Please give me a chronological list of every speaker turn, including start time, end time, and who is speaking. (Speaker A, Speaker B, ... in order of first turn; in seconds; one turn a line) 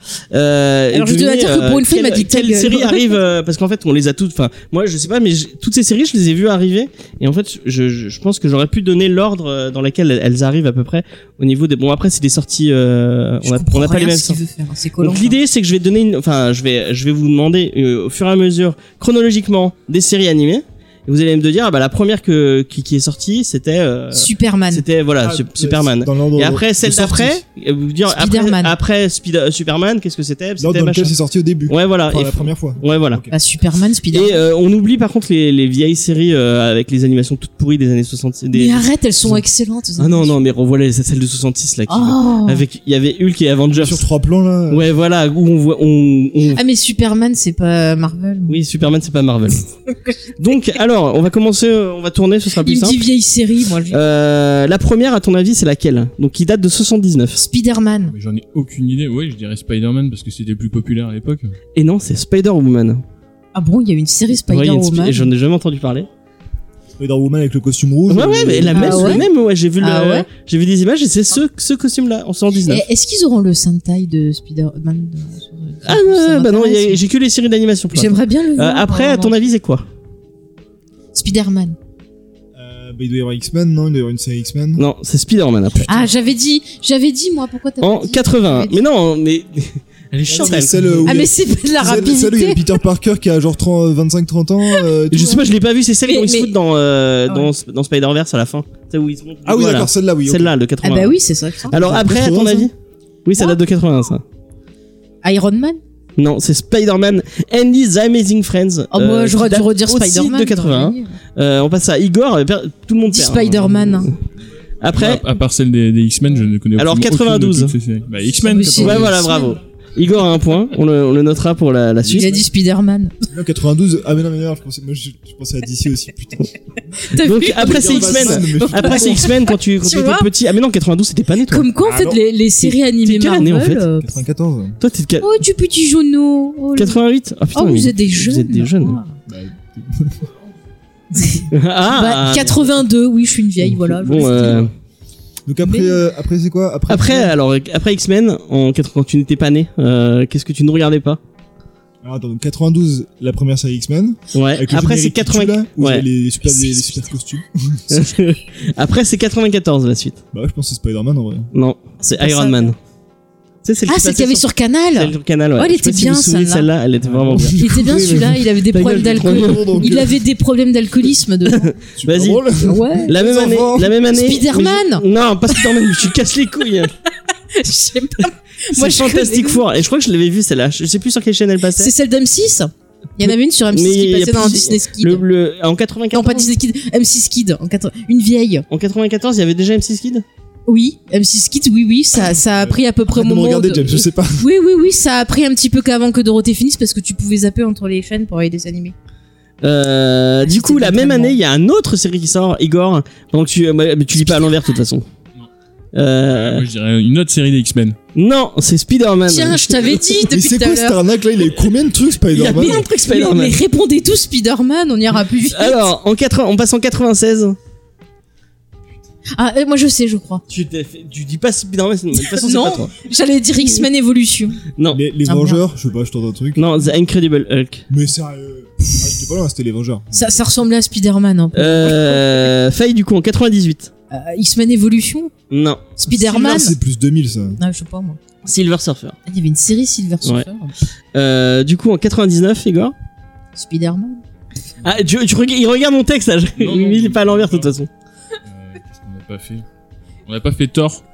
Speaker A: 0.3-14.4
Speaker B: 0.9-3.1
Speaker B: 13.4-15.4
Speaker A: 15.0-31.1
Speaker B: 24.1-24.8
Speaker C: 25.2-27.4
Speaker B: 28.1-28.7
Speaker C: 30.6-33.3
Speaker A: 31.7-33.2
Speaker B: 33.3-34.4
Speaker A: 34.1-38.8
Speaker B: 38.5-40.4
Speaker A: 40.0-44.0
Speaker B: 41.9-42.6
Speaker C: 43.7-44.9
Speaker A: 44.7-46.6
Speaker B: 46.5-48.6
Speaker A: 48.5-49.7
Speaker A: 50.4-53.0
Speaker B: 52.6-54.0
Speaker A: 53.9-57.4
Speaker B: 57.4-58.1
Speaker D: 58.1-61.5
Speaker A: 61.7-63.0
Speaker B: 63.5-65.3
Speaker A: 64.3-66.1
Speaker C: 67.0-69.3
Speaker A: 68.1-72.8
Speaker B: 68.7-69.2
Speaker B: 69.8-70.3
Speaker B: 72.7-77.0
Speaker A: 75.8-79.8
Speaker B: 77.9-79.3
Speaker B: 81.1-81.8
Speaker C: 82.5-84.8
Speaker A: 84.8-86.0
Speaker C: 85.8-86.0
Speaker B: 85.9-88.8
Speaker A: 87.8-91.2
Speaker C: 90.2-95.5
Speaker B: 91.0-92.6
Speaker A: 95.1-101.2
Speaker B: 96.0-96.5
Speaker C: 99.4-100.5
Speaker B: 100.8-102.2
Speaker A: 101.7-102.7
Speaker C: 101.7-102.7
Speaker A: 103.2-104.2
Speaker B: 105.2-105.8
Speaker A: 106.2-114.1
Speaker B: 108.9-111.2
Speaker B: 113.1-114.1
Speaker A: 114.8-115.2
Speaker D: 114.9-119.1
Speaker A: 116.8-117.7
Speaker B: 118.4-119.6
Speaker A: 118.7-122.3
Speaker B: 122.1-123.2
Speaker C: 123.3-126.5
Speaker B: 127.0-130.3
Speaker A: 127.2-131.7
Speaker C: 127.5-129.3
Speaker B: 131.5-134.2
Speaker C: 131.8-132.2
Speaker A: 132.6-133.8
Speaker C: 134.0-134.8
Speaker A: 134.8-135.3
Speaker B: 135.2-137.0
Speaker A: 136.8-139.0
Speaker B: 137.5-139.2
Speaker C: 139.3-140.3
Speaker B: 141.1-144.7
Speaker A: 141.5-142.7
Speaker C: 143.6-144.7
Speaker A: 144.0-144.7
Speaker C: 145.5-147.3
Speaker B: 145.6-146.0
Speaker A: 146.9-151.2
Speaker C: 152.0-157.9
Speaker A: 154.3-156.0
Speaker B: 156.4-157.1
Speaker A: 157.9-160.2
Speaker C: 160.3-161.5
Speaker A: 161.5-162.8
Speaker B: 162.1-162.7
Speaker A: 163.6-167.6
Speaker B: 163.9-166.7
Speaker C: 167.0-170.2
Speaker B: 167.5-171.7
Speaker A: 168.7-169.7
Speaker A: 171.5-176.9
Speaker C: 171.9-173.9
Speaker B: 172.6-173.1
Speaker B: 174.1-175.7
Speaker B: 177.5-179.6
Speaker A: 178.7-181.9
Speaker B: 181.8-185.2
Speaker A: 183.2-186.5
Speaker B: 186.1-188.7
Speaker A: 188.7-190.2
Speaker B: 190.7-198.9
Speaker C: 192.4-194.4
Speaker A: 199.6-205.0
Speaker B: 200.4-201.4
Speaker A: 205.9-206.6
Speaker D: 206.3-208.0
Speaker A: 208.1-210.0
Speaker B: 209.3-211.0
Speaker C: 210.3-212.8
Speaker A: 212.3-213.6
Speaker B: 212.4-215.9
Speaker A: 215.5-217.6
Speaker B: 219.3-220.4
Speaker A: 220.5-222.9
Speaker B: 222.2-224.6
Speaker A: 224.8-225.0
Speaker C: 224.9-226.7
Speaker B: 225.2-225.6
Speaker A: 226.6-227.9
Speaker C: 227.9-230.3
Speaker B: 230.1-232.5
Speaker A: 231.5-233.9
Speaker B: 234.1-235.3
Speaker A: 235.5-235.9
Speaker B: 236.0-236.7
Speaker C: 236.1-237.6
Speaker B: 237.6-238.2
Speaker A: 238.4-239.2
Speaker B: 239.3-240.7
Speaker A: 241.1-242.9
Speaker B: 243.5-244.2
Speaker A: 244.8-247.9
Speaker D: 246.6-247.7
Speaker D: 248.4-249.6
Speaker D: 250.2-251.0